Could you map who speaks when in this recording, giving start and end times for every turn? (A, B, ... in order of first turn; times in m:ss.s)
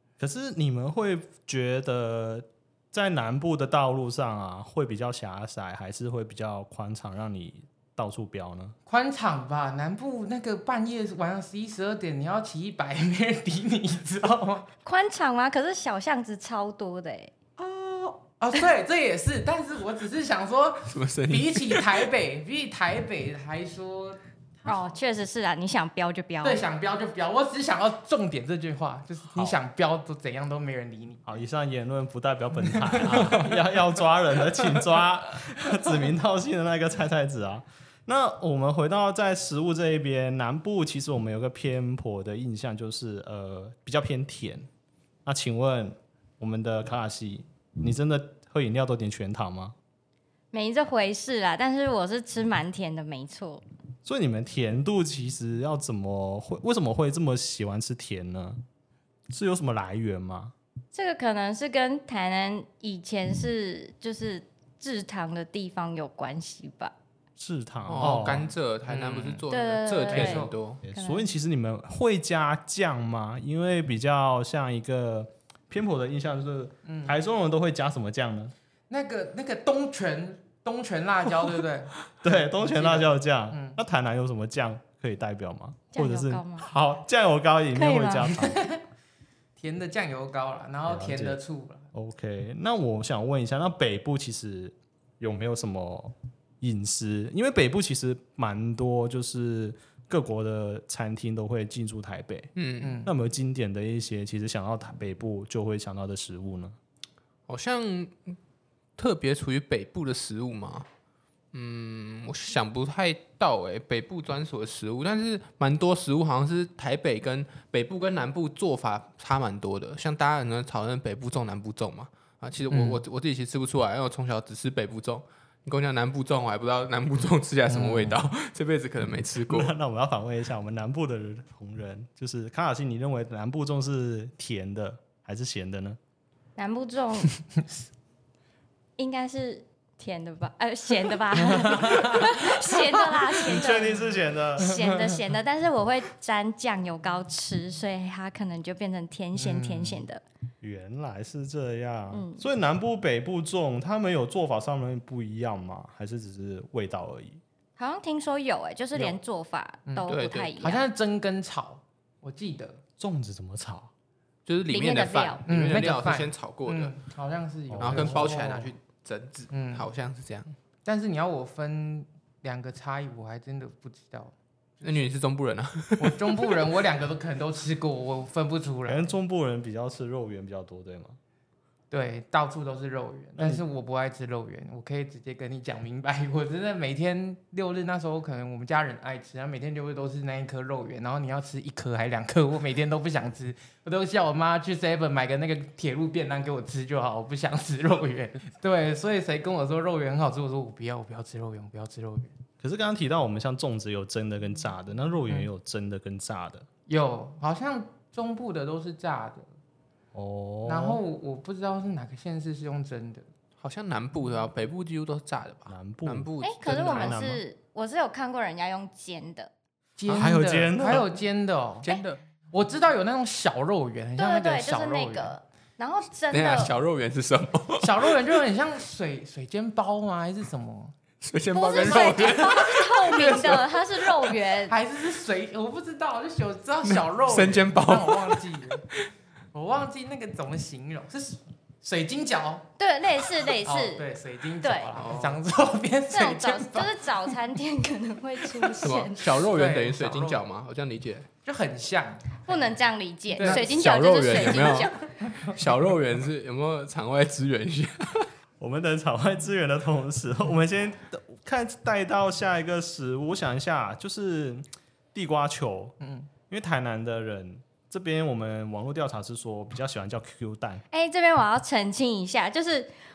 0:00.2-0:08.7 A
0:08.9-0:14.7 B
0:14.8-0:17.3 C
0:17.6-0:24.8 B
0:20.9-0:22.1 D
0:24.6-0:26.6 C
0:26.4-0:31.3 B
0:31.2-0:44.7 A
0:32.7-0:33.5 B
0:33.0-0:33.4 D
0:45.2-0:49.7 A
0:50.5-0:53.6 C
0:54.0-0:58.6 A
0:59.3-1:00.5 A
1:00.9-1:06.9 C
1:07.4-1:08.5 A
1:07.9-1:10.8 D
1:08.9-1:09.4 B
1:09.5-1:11.3 C
1:10.1-1:10.5 B
1:10.8-1:18.5 A
1:16.8-1:17.2 B
1:18.9-1:23.8 B
1:22.2-1:28.6 A
1:25.9-1:26.7 C
1:27.7-1:28.4 C
1:28.3-1:28.8 B
1:29.6-1:31.8 B
1:30.8-1:31.4 A
1:31.9-1:42.5 A
1:42.6-1:43.0 D
1:42.8-1:43.1 B
1:43.0-1:46.8 A
1:47.5-1:48.4 D
1:49.0-1:50.9 D
1:51.5-2:09.7 D
2:02.7-2:03.0 B
2:07.7-2:08.2 B
2:09.5-2:16.0 A
2:16.6-2:17.3 C
2:19.0-2:30.2 C
2:21.6-2:23.4 B
2:23.4-2:25.1 A
2:29.4-2:30.0 B
2:30.6-2:37.4 A
2:32.1-2:32.4 C
2:37.8-2:40.8 C
2:39.9-2:42.8 B
2:40.1-2:40.5 D
2:43.0-2:43.9 A
2:44.4-2:46.9 D
2:44.7-2:45.4 C
2:45.5-2:48.7 B
2:47.7-2:48.4 A
2:47.8-2:50.6 D
2:49.5-2:49.8 B
2:50.8-2:55.0 B
2:54.8-2:56.7 D
2:56.0-2:59.1 B
2:58.8-3:01.2 A
3:01.9-3:22.3 B
3:03.4-3:03.6 A
3:22.6-3:26.6 A
3:26.9-3:29.5 B
3:30.1-3:31.0 A
3:30.6-3:33.2 B
3:33.6-3:37.2 D
3:35.7-3:37.4 A
3:36.4-3:39.5 C
3:40.0-3:41.8 B
3:40.1-3:41.2 A
3:41.8-3:42.2 D
3:42.5-3:45.3 B
3:44.2-3:46.7 C
3:46.3-3:48.3 D
3:47.8-3:50.9 B
3:51.2-3:54.3 D
3:51.5-3:54.8 C
3:54.7-3:58.8 B
3:56.8-3:59.0 D
3:59.5-4:02.7 B
4:02.8-4:04.0 C
4:03.6-4:07.3 B
4:04.6-4:04.9 C
4:05.0-4:05.4 D
4:06.1-4:09.3 C
4:08.8-4:11.3 D
4:09.4-4:10.4 B
4:11.4-4:12.8 B
4:12.5-4:15.0 C
4:13.3-4:13.7 B
4:13.4-4:18.3 D
4:14.3-4:15.6 B
4:18.6-4:26.0 A
4:26.0-4:26.3 B
4:26.5-4:30.8 A
4:30.9-4:32.9 C